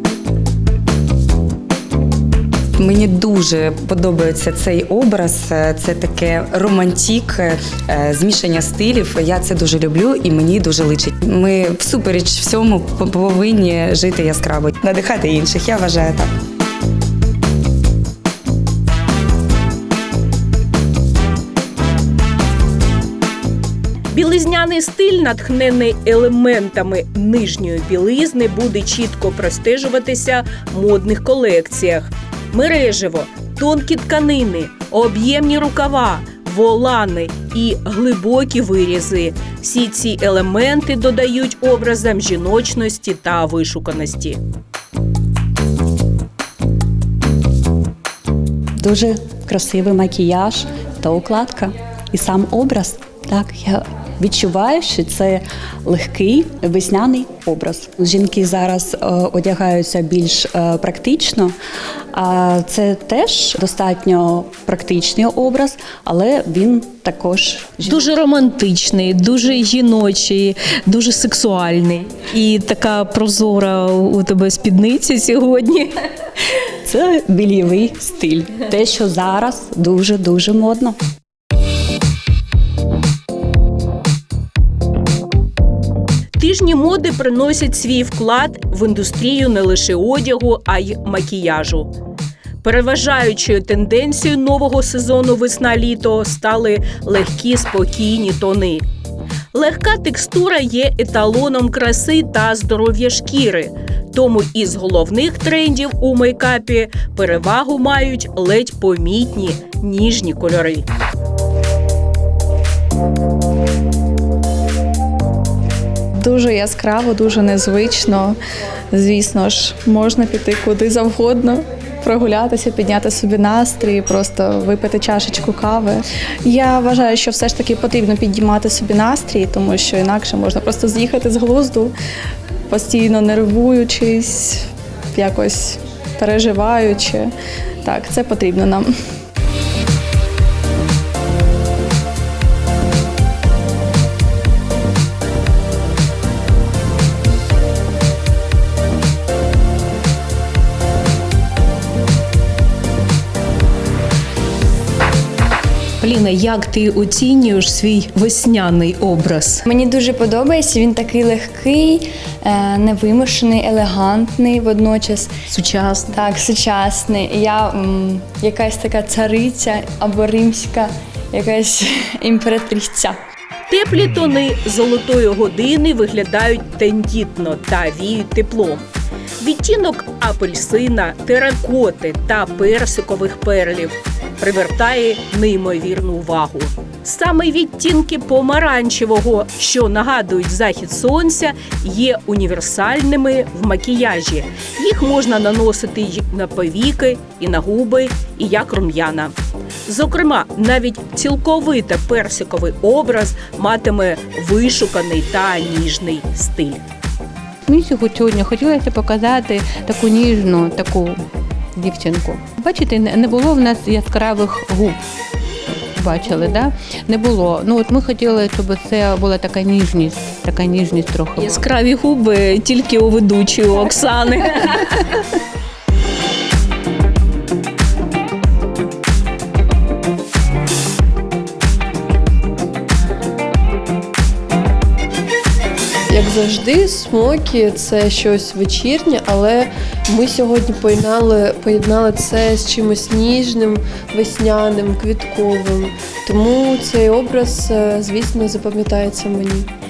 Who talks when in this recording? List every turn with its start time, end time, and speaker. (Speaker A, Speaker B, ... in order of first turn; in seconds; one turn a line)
Speaker A: 2.8-16.3
Speaker B: 24.1-44.4
Speaker C: 48.8-61.5
Speaker C: 62.1-68.0
Speaker B: 67.8-76.0
Speaker C: 76.8-81.0
Speaker B: 86.4-91.9
Speaker B: 92.6-98.8
Speaker B: 99.5-110.8
Speaker D: 116.2-118.4
Speaker D: 118.9-131.9
Speaker D: 132.7-137.3
Speaker D: 137.8-138.9
Speaker B: 156.0-159.6
Speaker E: 159.7-165.3
Speaker B: 165.5-166.3
Speaker E: 166.1-173.2
Speaker B: 173.7-178.8
Speaker B: 179.4-206.8
Speaker F: 207.7-211.2
Speaker F: 211.8-215.0
Speaker F: 215.7-221.6
Speaker B: 221.4-225.3
Speaker G: 236.1-249.7